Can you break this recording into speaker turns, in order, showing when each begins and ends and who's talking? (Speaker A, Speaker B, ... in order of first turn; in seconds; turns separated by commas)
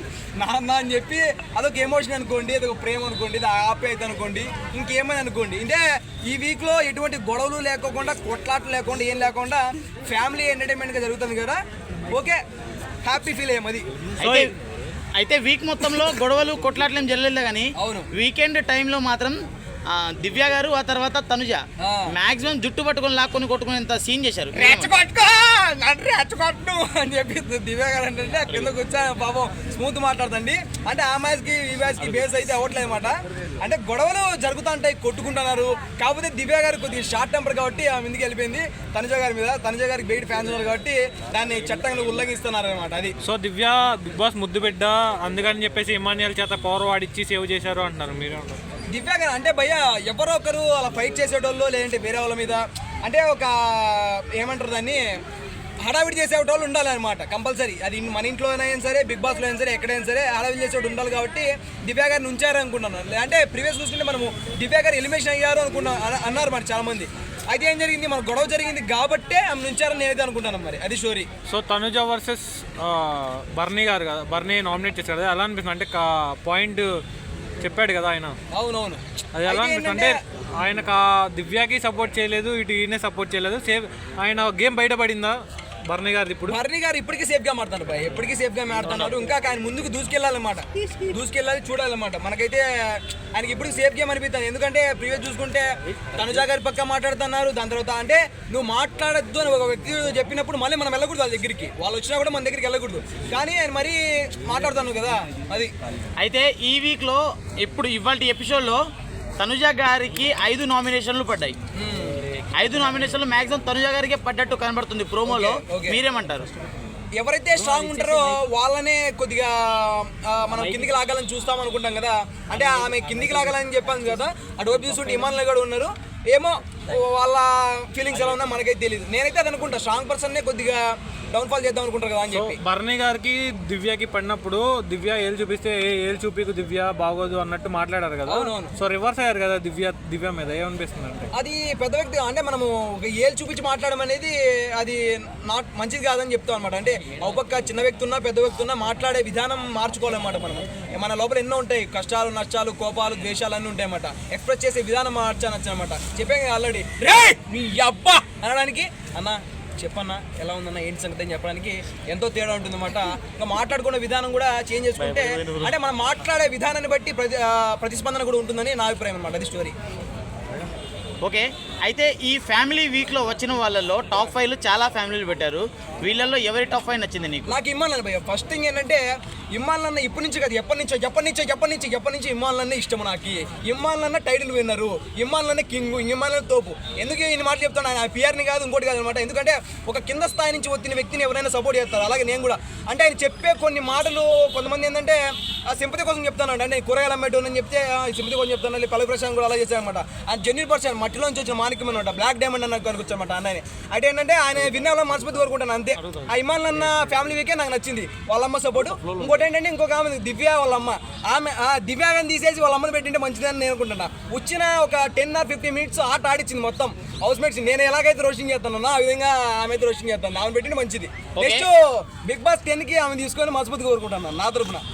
Speaker A: 0.4-11.6, Speaker A: 12.1-12.4, Speaker A: 13.0-13.9, Speaker B: 14.2-14.5, Speaker B: 15.2-19.4, Speaker A: 17.8-18.1, Speaker B: 19.9-24.9, Speaker A: 21.8-22.1, Speaker A: 24.5-43.1, Speaker C: 43.2-48.6, Speaker A: 48.9-55.0, Speaker A: 55.8-71.3, Speaker C: 71.5-77.0, Speaker C: 77.6-78.4, Speaker A: 78.5-80.2, Speaker C: 79.3-86.6, Speaker A: 86.5-105.7, Speaker B: 106.2-108.8, Speaker B: 109.4-111.6, Speaker A: 111.8-112.3, Speaker B: 112.5-116.5, Speaker A: 115.3-116.0, Speaker A: 117.2-132.6, Speaker B: 117.6-118.4, Speaker B: 120.5-120.9, Speaker B: 122.5-123.3, Speaker C: 132.3-141.3, Speaker A: 138.3-138.7, Speaker A: 141.3-169.7, Speaker B: 165.0-165.7, Speaker B: 171.2-177.6, Speaker A: 177.5-224.8, Speaker B: 221.4-221.7